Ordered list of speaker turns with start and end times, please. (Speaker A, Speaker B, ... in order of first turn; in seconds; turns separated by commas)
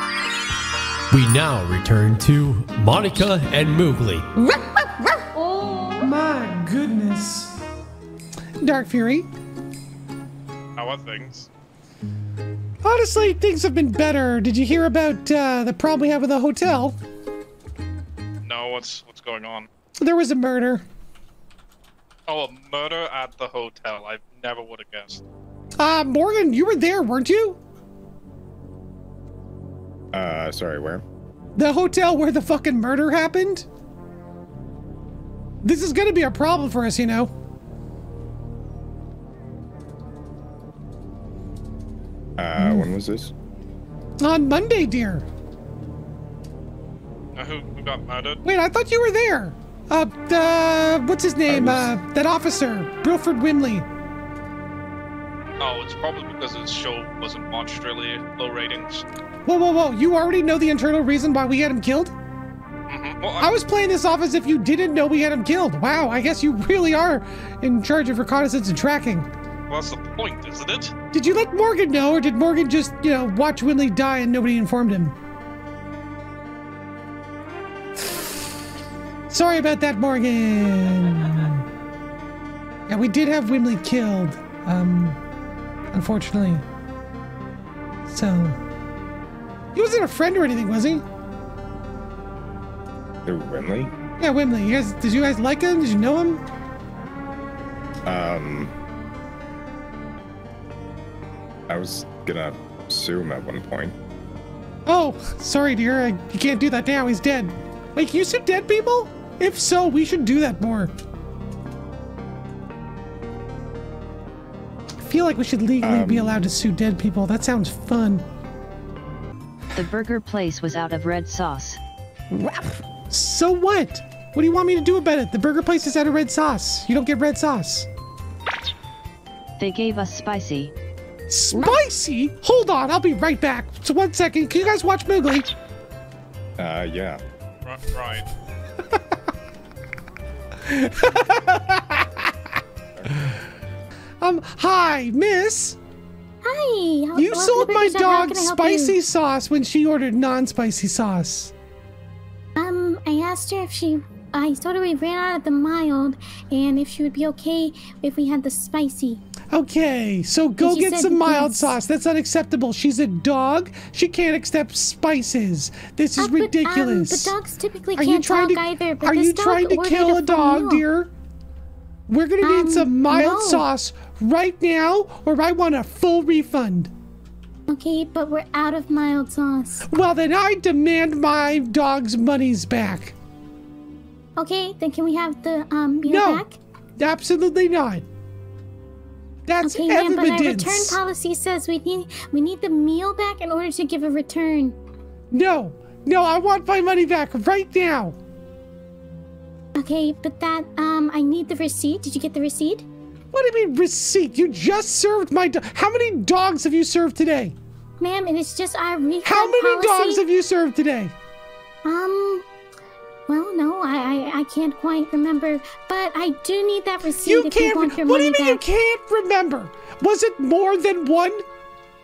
Speaker A: 1.1-4.2, Speaker B: 5.3-6.1, Speaker C: 6.0-7.5, Speaker C: 8.6-9.2, Speaker D: 10.8-11.5, Speaker C: 12.8-17.0, Speaker D: 18.4-19.7, Speaker C: 20.0-20.8, Speaker D: 22.3-25.2, Speaker C: 25.8-27.6, Speaker E: 30.1-31.0, Speaker C: 31.6-33.6, Speaker C: 35.6-37.3, Speaker E: 42.4-43.3, Speaker C: 42.6-42.9, Speaker C: 44.2-45.2, Speaker D: 47.4-48.4, Speaker C: 48.4-53.9, Speaker E: 51.5-51.9, Speaker D: 55.6-59.0, Speaker C: 59.5-62.1, Speaker D: 62.9-63.5, Speaker C: 63.4-69.3, Speaker D: 69.7-70.9, Speaker C: 71.1-75.1, Speaker C: 78.0-78.3, Speaker C: 79.3-81.6, Speaker C: 82.9-85.2, Speaker C: 85.9-86.6, Speaker C: 88.1-88.6, Speaker C: 89.7-91.0, Speaker E: 93.2-93.9, Speaker C: 94.2-96.4, Speaker E: 98.0-98.7, Speaker E: 101.7-103.9, Speaker C: 104.8-110.9, Speaker C: 115.0-118.2, Speaker E: 115.8-116.4, Speaker F: 119.7-121.8, Speaker A: 122.3-122.6, Speaker C: 123.1-127.9, Speaker F: 129.6-130.7, Speaker C: 131.3-135.5, Speaker E: 136.6-137.2, Speaker D: 137.6-138.3, Speaker C: 140.6-142.3, Speaker C: 144.2-145.8, Speaker B: 146.4-149.0, Speaker C: 147.1-151.5, Speaker B: 152.6-159.2, Speaker C: 159.5-167.3, Speaker B: 160.6-161.8, Speaker B: 166.2-170.8, Speaker C: 167.9-171.1, Speaker C: 172.1-176.9, Speaker B: 172.4-173.7, Speaker B: 177.7-179.8, Speaker C: 179.8-183.1, Speaker B: 184.4-186.6, Speaker C: 186.1-186.4, Speaker C: 187.0-188.1, Speaker C: 189.4-191.0, Speaker B: 189.6-194.8, Speaker C: 195.3-198.2, Speaker B: 199.8-202.8, Speaker C: 203.3-207.5, Speaker B: 208.0-210.2, Speaker C: 209.2-211.1, Speaker B: 211.8-212.4, Speaker B: 213.3-218.6, Speaker C: 217.2-221.4